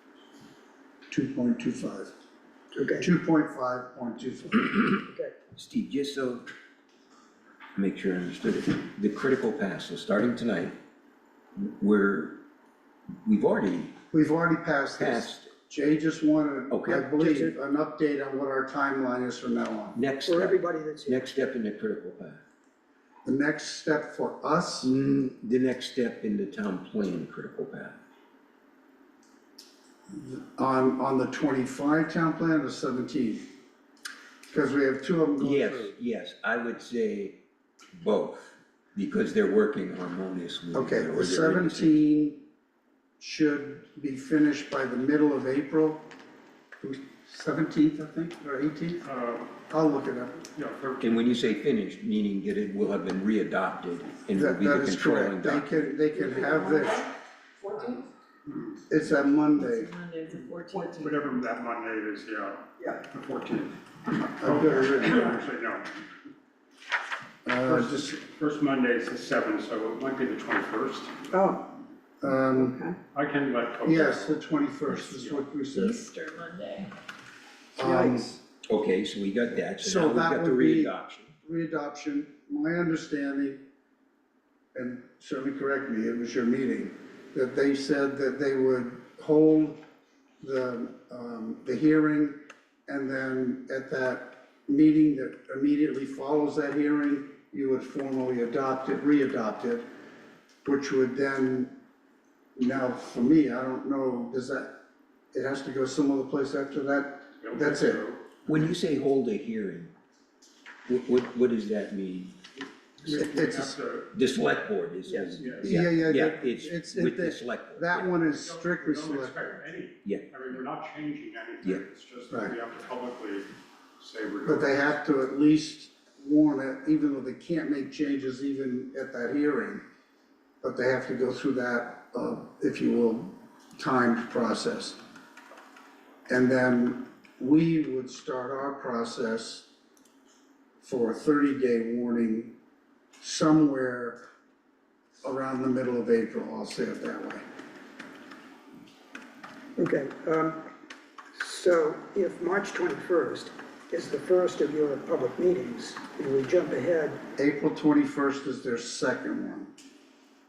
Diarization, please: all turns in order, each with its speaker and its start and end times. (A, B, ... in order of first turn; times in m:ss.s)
0:01.1-0:02.1 A
0:02.7-0:03.1 B
0:03.0-0:04.7 A
0:05.1-0:05.3 B
0:05.6-0:06.5 C
0:07.7-0:10.7 C
0:11.6-0:12.4 C
0:13.2-0:13.9 C
0:14.1-0:20.0 A
0:15.0-0:15.5 C
0:16.7-0:17.0 C
0:17.1-0:17.6 B
0:19.9-0:22.4 C
0:20.2-0:21.3 B
0:23.2-0:24.9 A
0:24.8-0:28.0 C
0:30.1-0:33.5 A
0:34.5-0:35.9 A
0:35.4-0:37.4 C
0:38.0-0:41.9 C
0:40.7-0:42.4 A
0:43.2-0:46.1 A
0:46.8-0:49.0 A
0:49.0-0:49.6 D
0:49.7-0:50.4 A
0:50.5-0:51.2 D
0:51.0-0:55.7 C
0:54.3-0:57.1 A
0:56.1-0:57.1 E
0:57.6-0:58.0 E
0:58.9-1:00.0 A
0:59.7-1:01.1 E
1:00.7-1:05.9 D
1:04.4-1:05.3 A
1:07.4-1:08.2 A
1:07.6-1:11.2 D
1:11.3-1:11.7 B
1:12.2-1:12.8 A
1:12.6-1:12.9 B
1:13.1-1:14.4 D
1:13.8-1:16.0 A
1:15.0-1:15.4 D
1:15.8-1:16.9 E
1:17.8-1:18.3 A
1:17.8-1:18.3 B
1:18.6-1:21.3 C
1:19.8-1:23.6 A
1:24.7-1:29.8 A
1:30.4-1:39.8 A
1:40.6-1:41.7 A
1:42.6-1:44.8 A
1:45.3-1:48.0 A
1:47.4-1:48.2 D
1:48.4-1:49.9 C
1:50.8-1:52.4 C
1:53.0-1:54.1 D
1:53.0-1:53.8 A
1:54.1-1:58.1 C
1:55.1-1:55.5 B
1:55.4-1:55.7 D
1:55.4-1:59.6 A
1:58.1-2:04.9 D
2:02.3-2:02.5 A
2:04.4-2:09.8 A
2:10.6-2:15.0 A
2:16.3-2:19.7 A
2:20.8-2:22.5 A
2:23.2-2:24.2 A
2:25.2-2:27.4 A
2:29.8-2:30.6 B
2:31.3-2:37.2 B
2:37.4-2:39.7 A